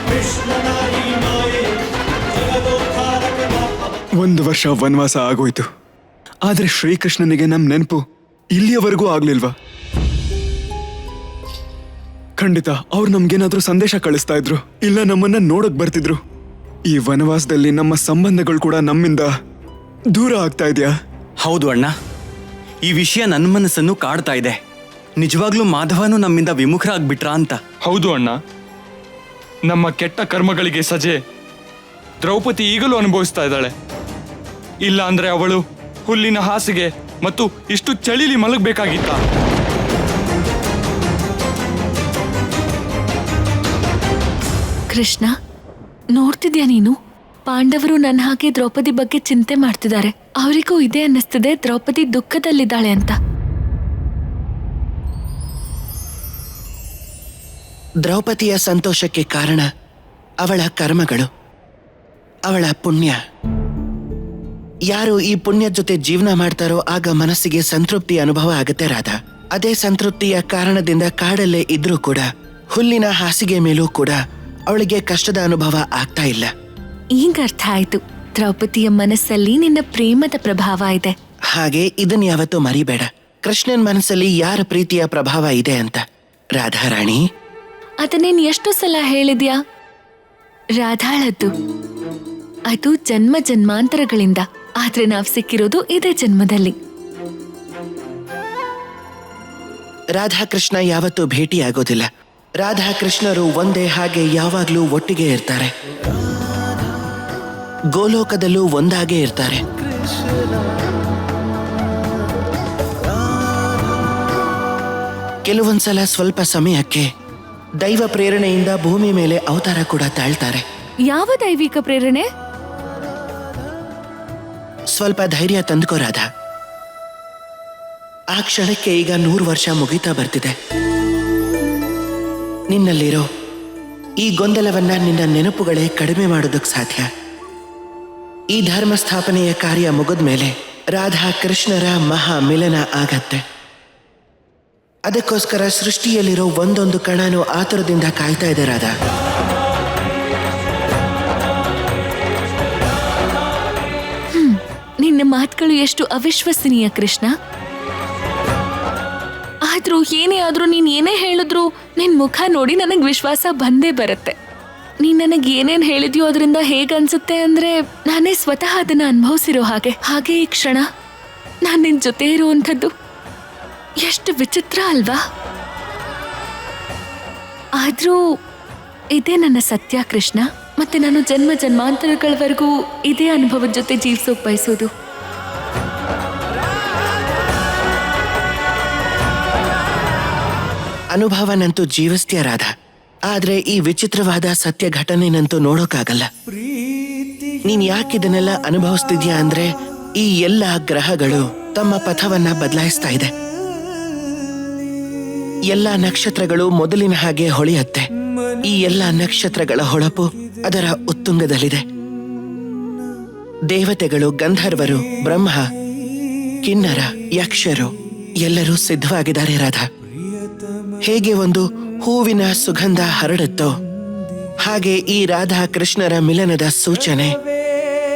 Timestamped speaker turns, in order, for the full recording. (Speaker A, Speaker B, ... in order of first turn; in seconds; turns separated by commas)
Speaker A: 4.2-5.7, Speaker A: 6.5-8.0, Speaker A: 8.5-9.5, Speaker A: 12.4-16.2, Speaker A: 16.9-19.3, Speaker A: 20.1-20.9, Speaker B: 21.4-21.9, Speaker B: 22.9-24.6, Speaker B: 25.2-27.6, Speaker C: 27.8-28.4, Speaker C: 29.7-31.2, Speaker C: 32.2-33.7, Speaker C: 34.9-39.2, Speaker D: 44.9-45.3, Speaker D: 46.1-53.2, Speaker E: 58.0-59.7, Speaker E: 60.4-61.3, Speaker E: 62.5-63.2, Speaker E: 64.9-76.5, Speaker D: 77.1-81.2, Speaker E: 81.5-86.0, Speaker E: 86.6-87.2, Speaker D: 88.0-89.6, Speaker D: 90.8-91.5, Speaker D: 92.7-96.8, Speaker E: 100.1-105.7, Speaker E: 107.9-109.6, Speaker E: 115.5-117.1, Speaker E: 117.8-120.7, Speaker D: 121.1-122.3, Speaker E: 124.9-126.3, Speaker E: 128.3-130.6, Speaker E: 132.7-133.3, Speaker E: 134.2-137.1, Speaker E: 138.5-143.4, Speaker E: 145.1-148.9, Speaker D: 154.3-157.3, Speaker D: 159.6-164.4, Speaker D: 165.0-170.9, Speaker D: 171.6-172.9, Speaker D: 174.0-175.2, Speaker D: 177.8-178.2, Speaker D: 179.2-184.9, Speaker E: 191.1-192.7, Speaker E: 193.3-196.3, Speaker E: 197.7-203.3, Speaker E: 205.7-208.1, Speaker E: 208.7-211.8, Speaker E: 213.7-215.7, Speaker E: 216.6-219.9, Speaker E: 221.0-223.7, Speaker E: 224.6-227.4